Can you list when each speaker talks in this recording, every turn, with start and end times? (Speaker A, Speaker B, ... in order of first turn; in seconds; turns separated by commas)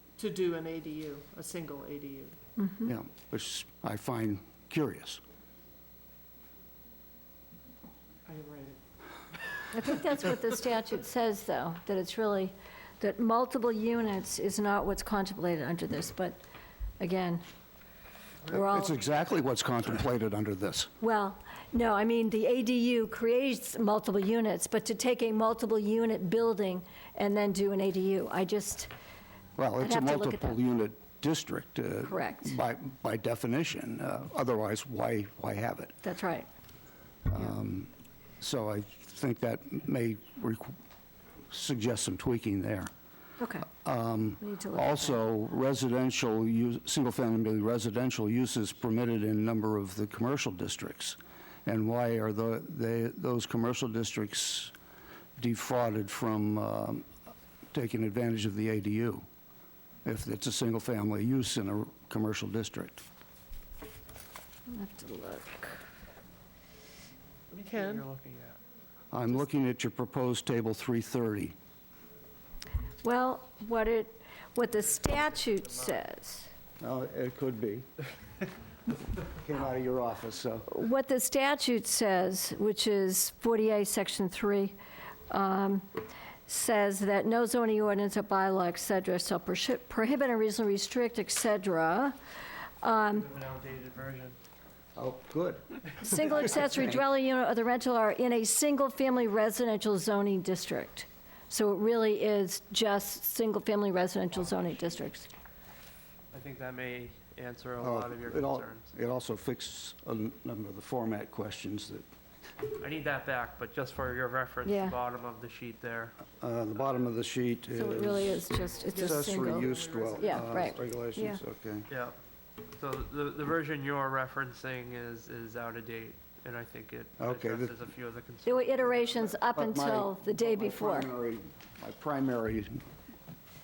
Speaker A: 0.2-2.4, Speaker B: 2.6-2.9, Speaker C: 2.8-5.2, Speaker A: 8.3-8.8, Speaker B: 9.7-16.4, Speaker B: 17.0-17.4, Speaker C: 18.5-20.9, Speaker B: 18.5-19.0, Speaker B: 21.0-28.9, Speaker C: 29.6-36.0, Speaker B: 29.8-30.6, Speaker B: 32.0-32.6, Speaker B: 36.0-36.5, Speaker C: 37.3-40.7, Speaker C: 41.5-42.9, Speaker B: 43.4-43.7, Speaker C: 43.8-54.7, Speaker B: 44.4-45.2, Speaker C: 55.4-57.0, Speaker C: 57.7-59.2, Speaker C: 60.0-63.0, Speaker B: 64.7-65.8, Speaker A: 67.5-68.0, Speaker D: 67.6-68.6, Speaker C: 69.1-71.5, Speaker B: 73.0-76.5, Speaker C: 76.8-77.9, Speaker C: 79.3-80.7, Speaker B: 80.7-84.7, Speaker B: 85.3-85.9, Speaker B: 86.5-92.2, Speaker B: 92.8-93.3, Speaker D: 93.2-94.4, Speaker C: 95.0-95.6, Speaker B: 96.0-105.3, Speaker C: 96.2-97.0, Speaker D: 106.3-108.9, Speaker C: 107.8-112.0, Speaker D: 112.7-116.2, Speaker B: 114.6-115.0, Speaker C: 116.4-121.9, Speaker B: 117.7-121.4, Speaker D: 118.5-119.1, Speaker A: 118.9-120.8, Speaker D: 121.9-122.2, Speaker D: 122.8-129.0, Speaker C: 127.2-127.7, Speaker B: 128.4-131.1, Speaker C: 129.0-132.8